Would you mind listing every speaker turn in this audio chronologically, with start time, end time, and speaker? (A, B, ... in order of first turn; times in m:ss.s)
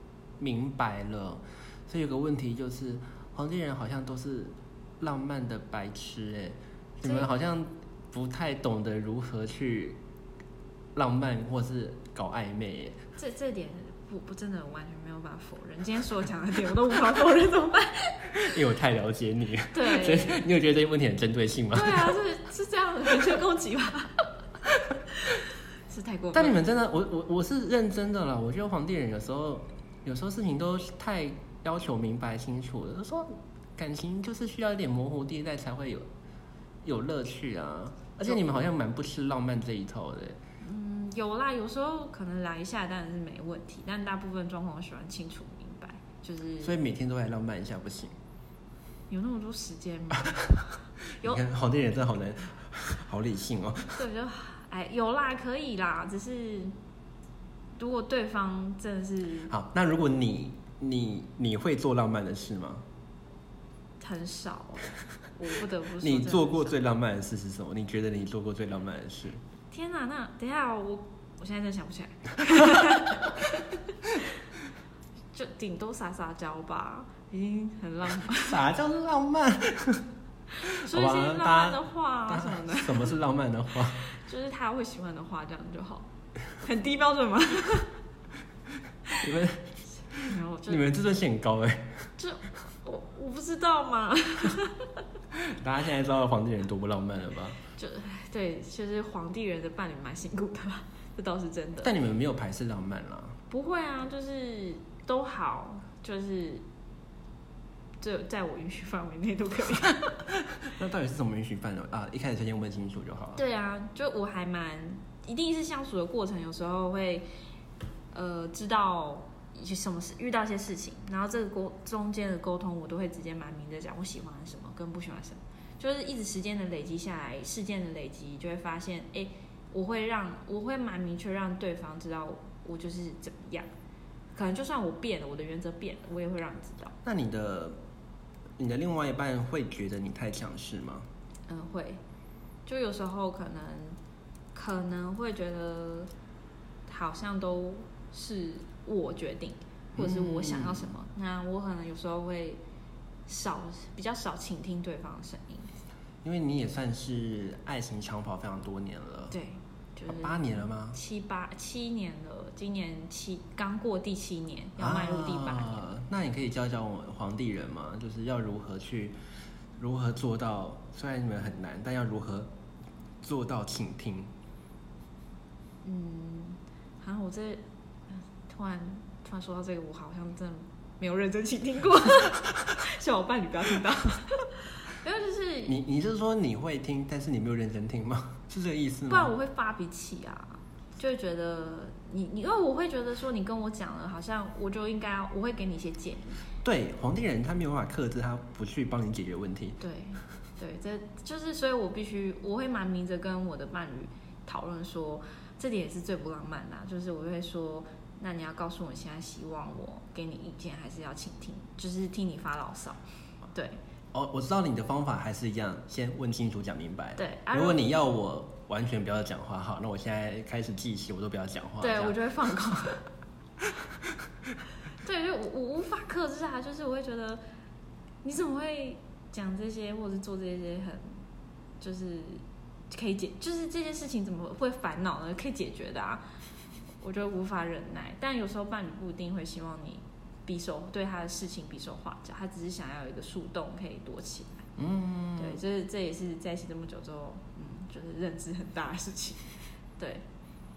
0:00.4-0:10.0 A
0:11.0-0:13.0 A
0:13.2-0:18.4 B
0:18.3-0:22.2 A
0:19.7-0:20.4 B
0:21.7-0:24.3 B
0:25.9-0:26.6 B
0:26.3-0:36.0 A
0:36.8-0:40.4 A
0:38.2-0:38.6 B
0:40.6-0:46.8 B
0:46.6-0:48.2 A
0:49.1-0:50.5 B
0:51.2-0:54.0 A
0:54.0-0:56.8 B
0:57.8-0:59.5 B
0:59.5-1:02.8 A
1:04.0-1:06.8 B
1:06.0-1:09.4 A
1:09.7-1:14.4 B
1:15.3-1:18.6 B
1:18.3-1:20.0 A
1:20.5-1:23.2 B
1:20.6-1:24.1 A
1:24.0-1:26.1 B
1:26.6-1:28.0 B
1:29.1-1:32.1 A
1:30.1-1:30.8 B
1:32.2-1:35.0 B
1:35.3-1:37.6 A
1:37.8-1:41.9 B
1:41.8-1:43.4 A
1:43.5-1:46.6 B
1:48.0-1:50.2 B
1:50.4-1:53.4 A
1:53.4-1:57.3 B
1:58.1-2:13.7 B
2:14.3-2:17.0 B
2:17.0-2:17.8 A
2:18.6-2:21.1 A
2:21.5-2:22.0 B
2:22.7-2:24.0 B
2:24.5-2:26.1 B
2:26.9-2:32.6 B
2:30.0-2:30.9 A
2:33.3-2:35.7 B
2:36.2-2:39.4 A
2:39.3-2:45.9 B
2:40.1-2:41.0 A
2:44.8-2:49.2 A
2:49.8-2:52.5 A
2:53.2-2:54.3 A
2:55.8-3:05.8 B
3:05.7-3:09.3 A
3:09.1-3:16.4 B
3:16.6-3:19.8 A
3:19.8-3:33.0 B
3:33.5-3:33.8 B
3:34.1-3:42.2 A
3:37.2-3:37.9 B
3:41.8-3:43.0 B
3:45.0-3:47.4 B
3:48.2-3:51.2 B
3:51.8-3:56.2 B
3:57.0-4:04.6 B
4:04.8-4:05.6 A
4:05.4-4:10.2 B